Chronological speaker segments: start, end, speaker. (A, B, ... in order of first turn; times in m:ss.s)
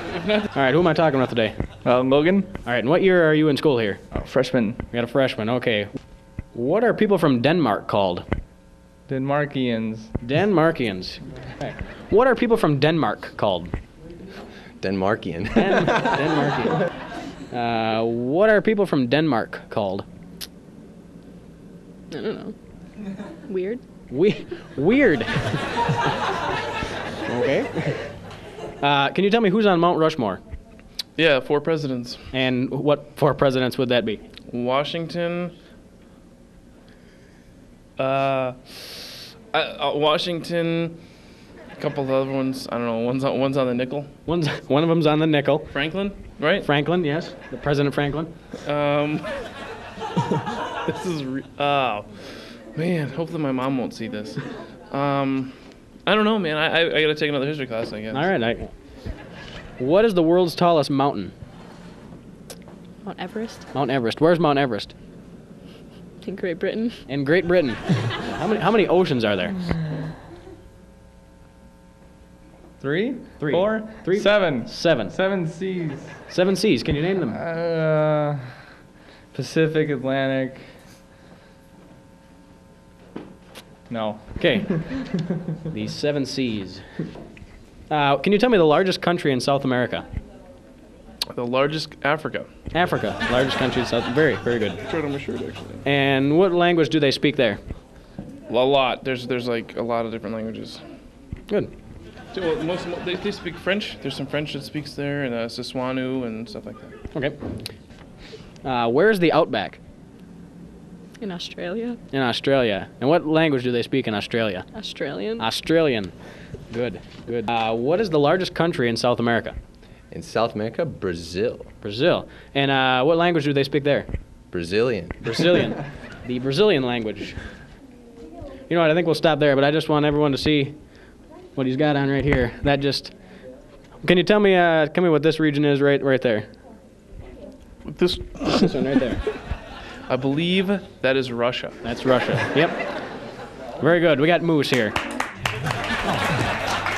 0:00.3-0:01.6 A
0:01.8-0:02.5 B
0:02.6-0:04.0 A
0:04.1-0:04.8 B
0:04.9-0:05.9 A
0:06.5-0:08.2 A
0:09.1-0:10.1 B
0:10.2-0:13.7 A
0:14.8-0:15.9 C
0:15.5-0:16.8 A
0:17.5-0:20.0 A
0:22.1-0:22.5 D
0:23.5-0:23.8 D
0:24.1-0:25.9 A
0:27.2-0:28.2 A
0:28.8-0:30.4 A
0:31.2-0:32.3 E
0:32.3-0:34.2 A
0:34.5-0:35.5 E
0:38.0-0:41.0 E
0:41.8-0:44.1 E
0:44.2-0:45.8 A
0:45.7-0:46.7 E
0:46.6-0:48.3 A
0:48.6-0:49.4 E
0:50.8-0:58.3 E
0:58.1-0:58.7 A
0:59.8-1:01.3 A
1:03.0-1:03.6 D
1:03.7-1:04.9 A
1:06.2-1:07.0 D
1:07.1-1:09.6 A
1:12.8-1:16.2 B
1:13.4-1:15.2 A
1:16.3-1:17.4 A
1:17.3-1:18.7 B
1:19.3-1:20.8 B
1:23.9-1:25.0 B
1:24.4-1:25.0 A
1:25.7-1:26.8 A
1:27.9-1:30.0 A
1:31.3-1:32.5 E
1:32.7-1:34.8 A
1:34.8-1:35.8 E
1:35.8-1:37.6 A
1:38.5-1:40.8 E
1:42.3-1:46.9 E
1:47.1-1:47.4 A
1:48.6-1:49.8 A
1:51.2-1:52.0 D
1:52.1-1:54.7 A
1:54.7-1:55.4 D
1:55.4-1:56.1 A
1:56.7-1:59.6 A
2:00.1-2:01.7 C
2:01.8-2:04.1 A
2:04.5-2:05.2 C
2:05.2-2:07.4 A
2:08.7-2:10.7 A
2:11.5-2:13.1 A
2:14.0-2:16.5 A
2:17.8-2:18.7 E
2:18.5-2:19.2 A
2:20.1-2:21.8 E
2:21.8-2:22.8 A
2:23.8-2:25.0 A